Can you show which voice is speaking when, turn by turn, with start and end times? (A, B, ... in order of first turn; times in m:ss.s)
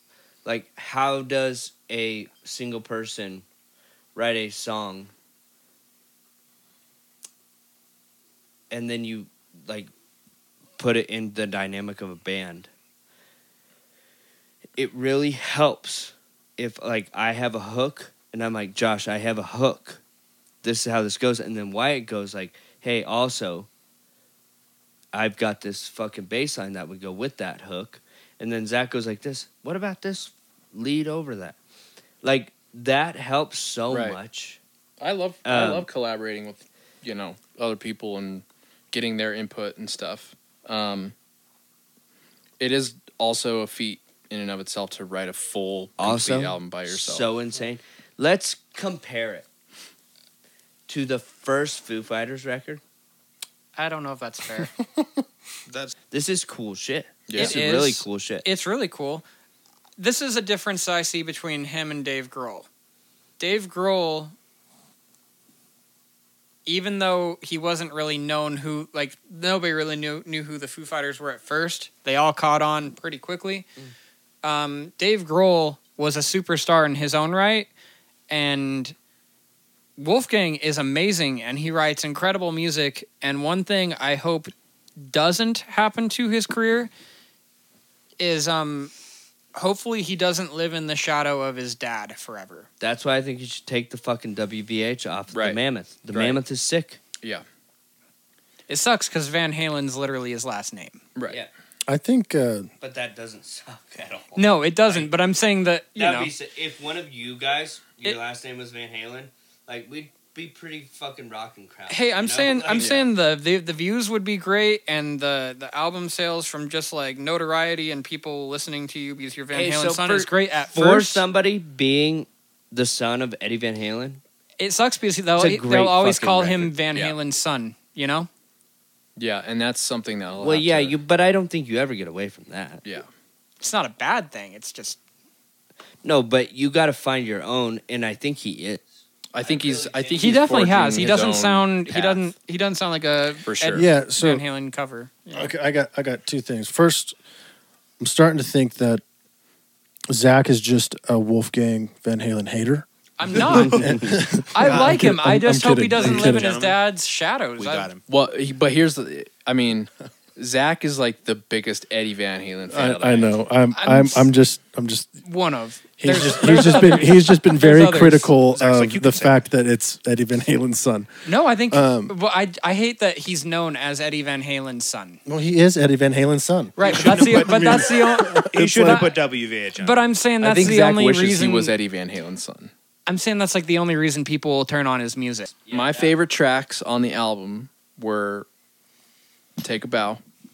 0:00.4-0:03.4 A
0:04.1-0:05.1 A
0:08.7-0:09.9 A
0:10.8-0:12.7 A
0:14.8-0:20.0 A
0:20.6-0:23.7 A
0:25.1-0:31.6 A
0:32.2-0:34.6 A
0:33.9-0:34.2 B
0:35.0-0:41.1 B
0:35.4-0:35.9 A
0:42.6-0:47.2 B
0:46.0-0:49.5 A
0:50.9-0:52.8 A
0:53.8-0:54.7 C
0:54.6-0:55.0 D
0:55.7-0:55.9 E
0:56.1-0:58.4 A
0:57.3-0:57.9 B
0:57.3-0:59.2 C
1:00.0-1:02.7 C
1:03.4-1:04.3 C
1:06.6-1:13.7 C
1:14.4-1:17.7 C
1:18.3-1:18.9 C
1:20.0-1:24.5 C
1:25.0-1:26.9 C
1:28.2-1:28.9 C
1:29.5-1:32.7 C
1:32.8-1:37.0 A
1:35.3-1:35.6 B
1:36.1-1:36.4 B
1:38.7-1:41.0 C
1:41.9-1:42.7 D
1:42.8-1:45.1 A
1:44.4-1:46.3 C
1:46.0-1:52.9 A
1:51.9-2:01.2 C
1:52.8-1:53.1 B
1:59.5-2:04.2 A
2:04.6-2:08.3 C
2:05.4-2:06.7 A
2:09.2-2:11.0 B
2:10.4-2:12.8 A
2:13.6-2:15.0 C
2:16.0-2:21.1 A
2:19.3-2:22.2 B
2:20.2-2:25.5 C
2:23.4-2:23.9 B
2:23.7-2:24.4 D
2:25.3-2:27.2 D
2:28.0-2:29.0 D
2:30.1-2:36.5 D
2:33.2-2:37.9 C
2:33.5-2:34.2 A
2:36.0-2:36.8 E
2:37.6-2:38.0 E
2:38.1-2:43.3 B
2:42.7-2:45.2 D
2:43.7-2:44.3 C
2:45.2-2:48.3 C
2:46.0-2:51.1 D
2:48.5-2:49.4 E
2:51.2-2:55.2 C
2:51.7-2:52.1 D
2:55.2-2:59.1 D
2:56.8-2:59.2 C
2:56.8-3:00.0 E
2:59.8-3:01.8 C
3:00.4-3:02.7 B
3:03.1-3:05.5 C
3:05.6-3:06.1 A
3:05.7-3:08.5 B
3:09.6-3:10.2 B